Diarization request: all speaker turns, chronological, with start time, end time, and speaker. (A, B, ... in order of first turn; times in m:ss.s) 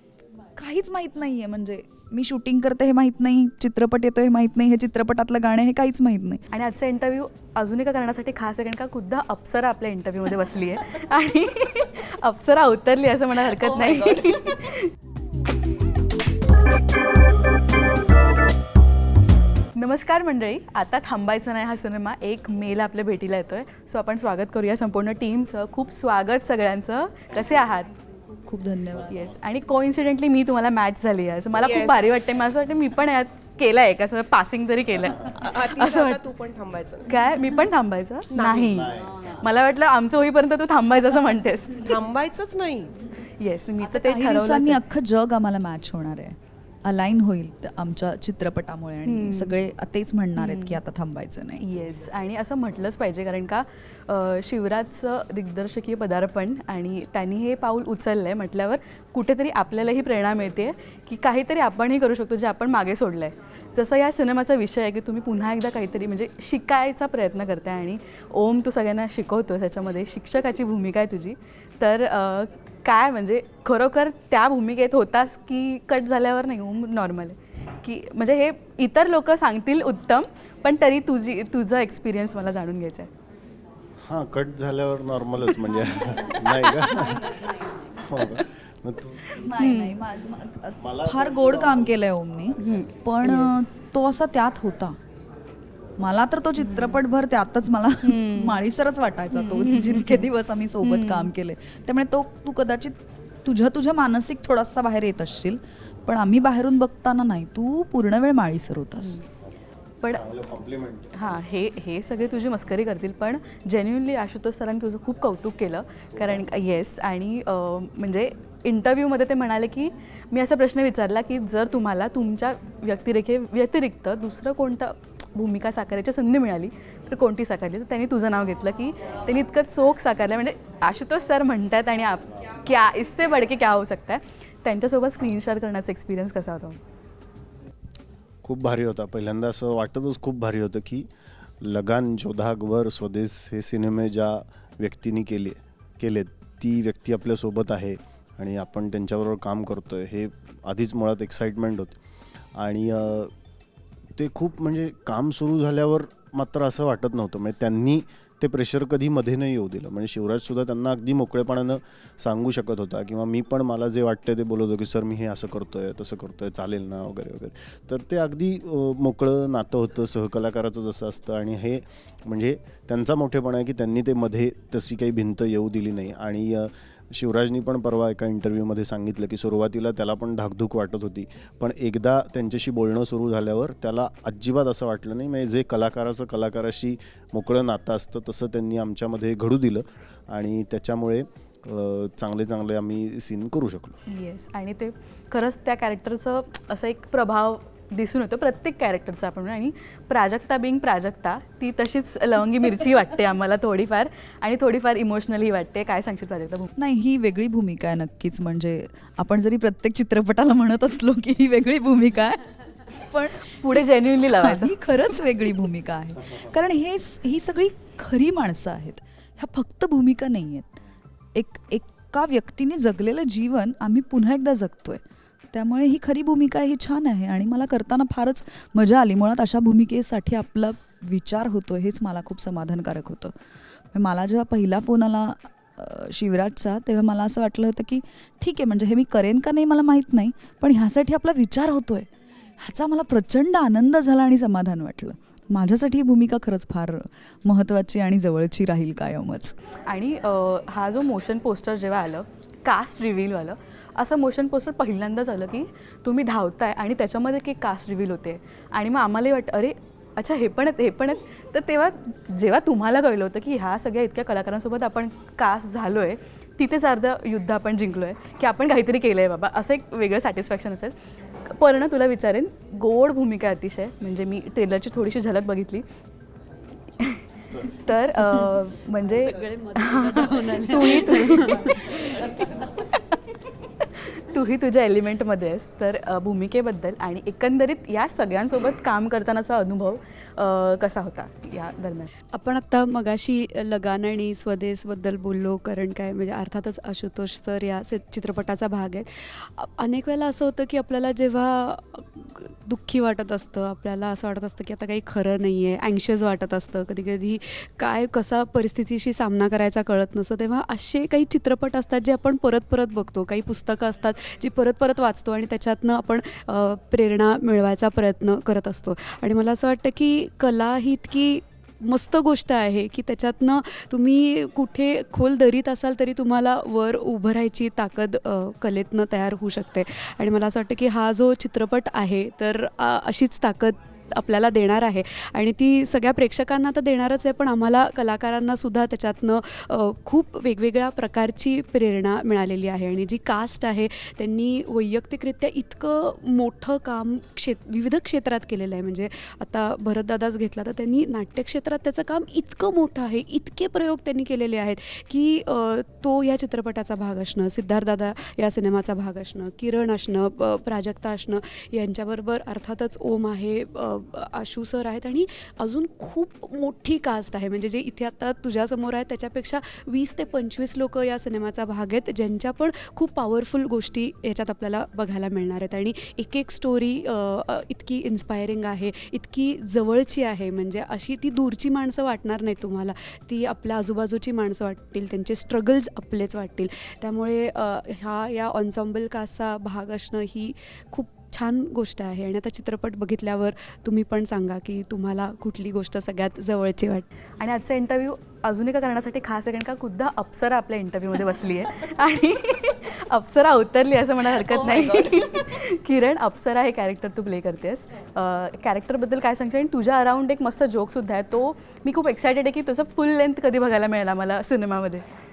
0:00.6-0:06.4 A
0:06.5-0:14.9 B
0:13.4-0:14.5 C
0:19.7-0:27.9 B
0:28.4-0:29.3 A
0:28.9-0:29.3 D
0:29.1-0:36.2 B
0:31.6-0:32.5 C
0:35.2-0:37.3 C
0:37.1-0:42.0 B
0:38.3-0:38.9 C
0:38.7-0:39.3 D
0:41.8-0:43.0 C
0:43.4-0:44.8 B
0:43.8-0:51.6 A
0:49.0-0:49.6 B
0:50.4-0:50.8 B
0:51.6-1:23.1 B
1:24.0-1:29.4 D
1:26.4-1:27.5 B
1:29.2-1:30.0 B
1:29.3-1:35.0 A
1:30.8-1:32.0 D
1:32.5-1:32.9 D
1:32.6-1:33.6 B
1:36.0-1:49.2 A
1:36.6-1:37.0 B
1:38.0-1:38.6 B
1:39.3-1:40.3 B
1:40.8-1:41.3 B
1:50.1-1:51.1 D
1:51.1-2:16.8 B
2:18.4-2:21.1 D
2:21.6-2:32.0 D
2:32.5-2:33.3 D
2:34.2-3:14.0 D
3:14.1-3:26.7 B
3:26.8-3:40.7 A
3:33.4-3:34.8 B
3:41.3-3:53.3 A
3:53.9-4:09.5 A
4:09.9-4:35.8 B
4:37.0-4:42.1 B
4:37.4-4:37.9 D
4:39.0-4:42.7 E
4:41.4-4:42.9 D
4:42.7-4:52.1 B
4:52.3-6:37.1 E
6:37.4-6:55.0 B
6:44.3-6:45.5 C